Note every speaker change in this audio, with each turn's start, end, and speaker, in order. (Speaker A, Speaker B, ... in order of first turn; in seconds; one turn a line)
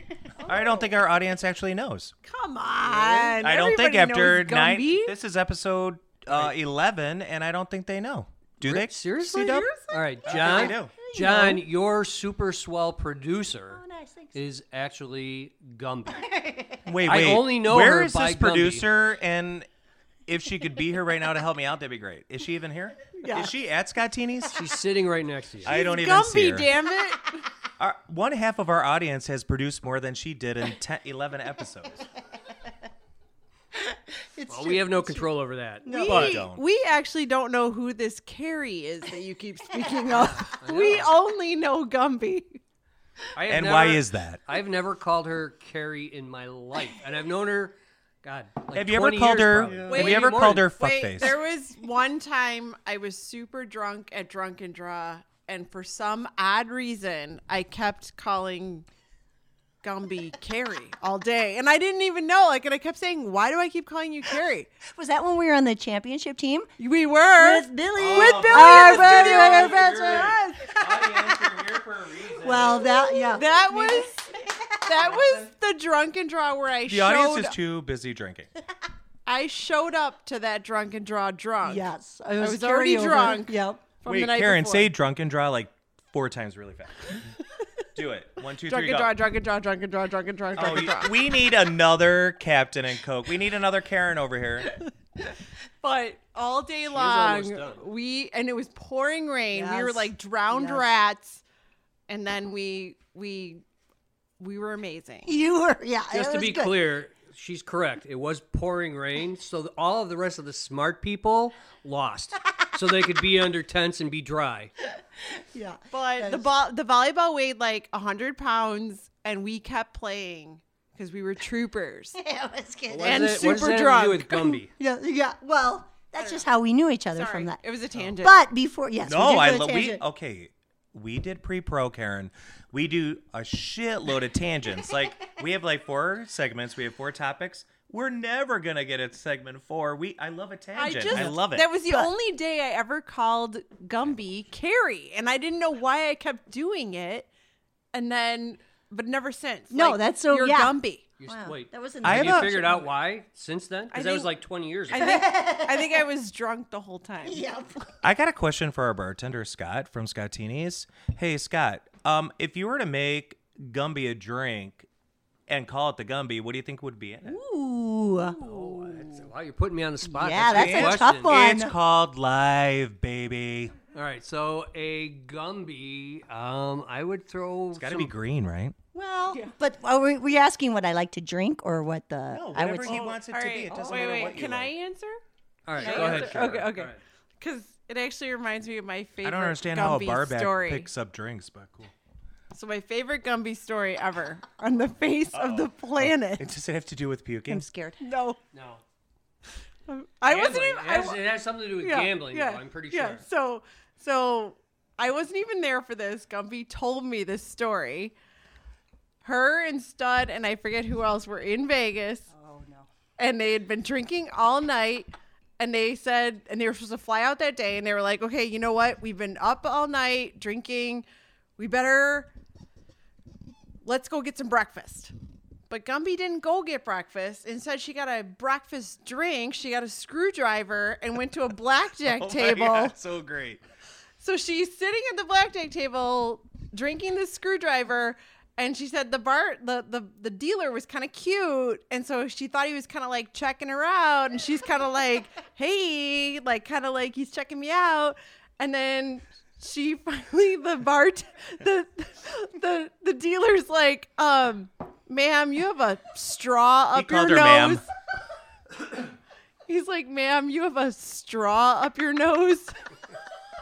Speaker A: 0.4-0.8
Speaker B: 0.5-2.1
Speaker A: 2.2-5.2
Speaker B: 3.4-9.7
Speaker C: 6.3-6.5
Speaker C: 8.6-13.8
Speaker A: 9.3-10.7
Speaker B: 10.2-10.9
Speaker D: 10.8-11.6
Speaker D: 13.7-14.4
Speaker C: 14.3-16.3
Speaker D: 16.2-16.8
Speaker B: 16.9-19.7
Speaker C: 17.0-18.9
Speaker B: 20.3-24.6
Speaker A: 23.2-23.5
Speaker C: 24.5-25.7
Speaker B: 25.6-26.7
Speaker A: 25.7-27.4
Speaker B: 27.8-32.1
Speaker D: 34.4-35.3
Speaker C: 34.5-36.4
Speaker D: 35.9-36.3
Speaker A: 35.9-42.6
Speaker B: 36.1-36.6
Speaker C: 40.1-41.1
Speaker C: 43.4-50.7
Speaker B: 43.5-44.4
Speaker B: 48.7-51.3
Speaker A: 49.9-58.9
Speaker A: 59.8-64.7
Speaker D: 64.9-66.7
Speaker A: 66.8-70.8
Speaker D: 67.3-71.4
Speaker B: 68.0-73.0
Speaker D: 72.4-75.2
Speaker A: 73.2-74.2
Speaker A: 74.8-77.5
Speaker B: 76.9-78.5
Speaker A: 79.3-81.8
Speaker D: 81.6-83.8
Speaker A: 82.4-84.9
Speaker B: 84.1-87.3
Speaker B: 88.0-89.1
Speaker A: 88.7-91.2
Speaker B: 90.6-94.7
Speaker A: 95.8-101.4
Speaker C: 96.9-97.8
Speaker D: 99.5-100.9
Speaker A: 102.1-103.6
Speaker A: 104.4-105.4
Speaker D: 105.3-106.8
Speaker C: 106.1-114.7
Speaker D: 115.3-116.5
Speaker A: 115.9-122.2
Speaker D: 122.2-123.8
Speaker C: 122.9-124.7
Speaker A: 123.0-124.6
Speaker D: 124.8-127.6
Speaker A: 127.2-128.4
Speaker D: 128.2-130.0
Speaker B: 129.0-141.7
Speaker A: 140.8-147.3
Speaker D: 141.1-142.1
Speaker A: 147.9-151.1
Speaker D: 149.7-152.9
Speaker C: 151.2-155.1
Speaker B: 152.0-152.6
Speaker A: 153.9-154.3
Speaker A: 154.9-157.4
Speaker D: 154.9-156.0
Speaker D: 157.2-157.8
Speaker B: 158.0-164.9
Speaker B: 165.5-167.4
Speaker D: 167.2-168.4
Speaker C: 168.4-171.3
Speaker D: 170.0-171.8
Speaker B: 170.4-173.8
Speaker C: 173.9-178.1
Speaker B: 177.7-178.8
Speaker D: 178.9-183.1
Speaker B: 182.3-184.7
Speaker A: 182.8-185.2
Speaker D: 183.9-184.1
Speaker C: 185.7-187.0
Speaker B: 185.8-186.7
Speaker A: 185.8-190.9
Speaker B: 189.2-191.9
Speaker A: 192.5-196.5
Speaker B: 195.3-197.7
Speaker D: 197.5-198.1
Speaker A: 198.0-198.4
Speaker C: 198.5-198.8
Speaker A: 199.9-201.2
Speaker C: 200.3-203.2
Speaker A: 201.8-208.1
Speaker A: 209.2-212.3
Speaker D: 212.3-212.9
Speaker A: 213.2-221.1
Speaker A: 221.6-222.3
Speaker A: 223.8-225.1
Speaker A: 225.7-232.9
Speaker B: 232.2-233.6
Speaker A: 234.2-257.9
Speaker B: 256.9-257.8
Speaker A: 259.7-262.8